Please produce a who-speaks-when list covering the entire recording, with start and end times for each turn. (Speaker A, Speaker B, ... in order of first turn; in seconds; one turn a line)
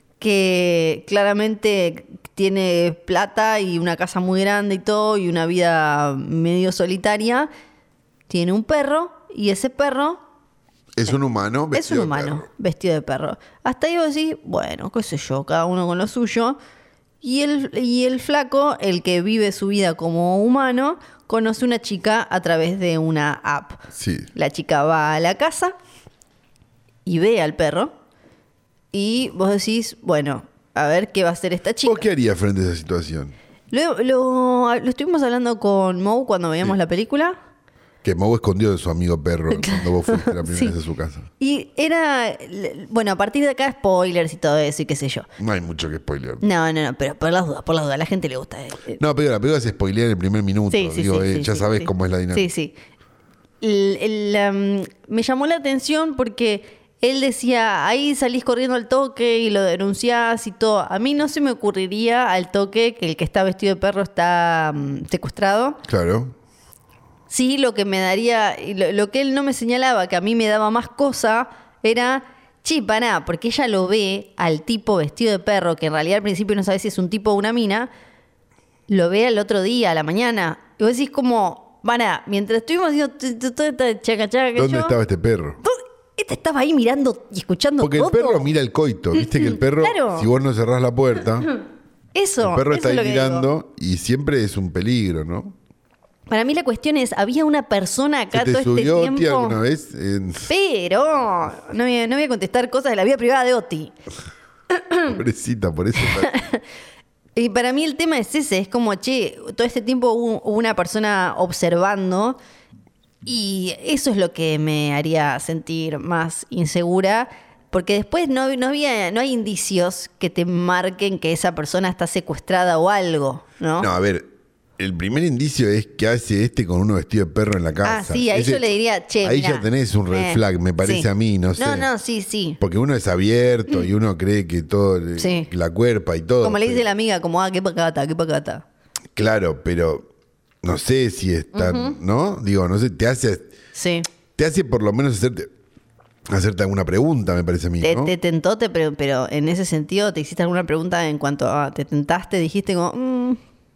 Speaker A: 0.2-7.5
Speaker A: 8.3-10.2
Speaker B: 10.9-12.4
Speaker A: 11.7-16.6
Speaker A: 17.2-25.7
Speaker B: 23.9-24.3
Speaker A: 27.1-27.9
Speaker A: 28.9-32.0
Speaker B: 31.8-33.3
Speaker A: 33.7-37.4
Speaker B: 38.0-41.3
Speaker A: 39.5-40.7
Speaker A: 41.4-45.3
Speaker B: 45.4-46.4
Speaker A: 46.4-49.0
Speaker B: 49.0-52.5
Speaker A: 50.7-52.7
Speaker A: 53.6-65.8
Speaker B: 65.9-66.3
Speaker A: 67.3-77.9
Speaker A: 78.9-85.0
Speaker B: 84.5-85.6
Speaker A: 85.6-88.5
Speaker B: 87.8-91.5
Speaker A: 89.2-90.3
Speaker A: 92.1-93.5
Speaker B: 92.4-95.5
Speaker A: 96.3-99.6
Speaker B: 98.3-100.5
Speaker A: 100.5-103.9
Speaker A: 104.7-105.1
Speaker B: 105.0-106.3
Speaker A: 106.0-106.6
Speaker A: 107.3-112.4
Speaker A: 113.2-123.9
Speaker B: 123.8-128.7
Speaker A: 127.8-132.6
Speaker B: 129.2-131.9
Speaker B: 132.6-136.8
Speaker A: 135.2-135.5
Speaker A: 136.4-138.6
Speaker B: 139.2-140.1
Speaker B: 140.6-143.5
Speaker A: 141.5-142.0
Speaker A: 143.7-144.1
Speaker B: 144.3-145.5
Speaker B: 146.3-148.1
Speaker A: 147.8-153.4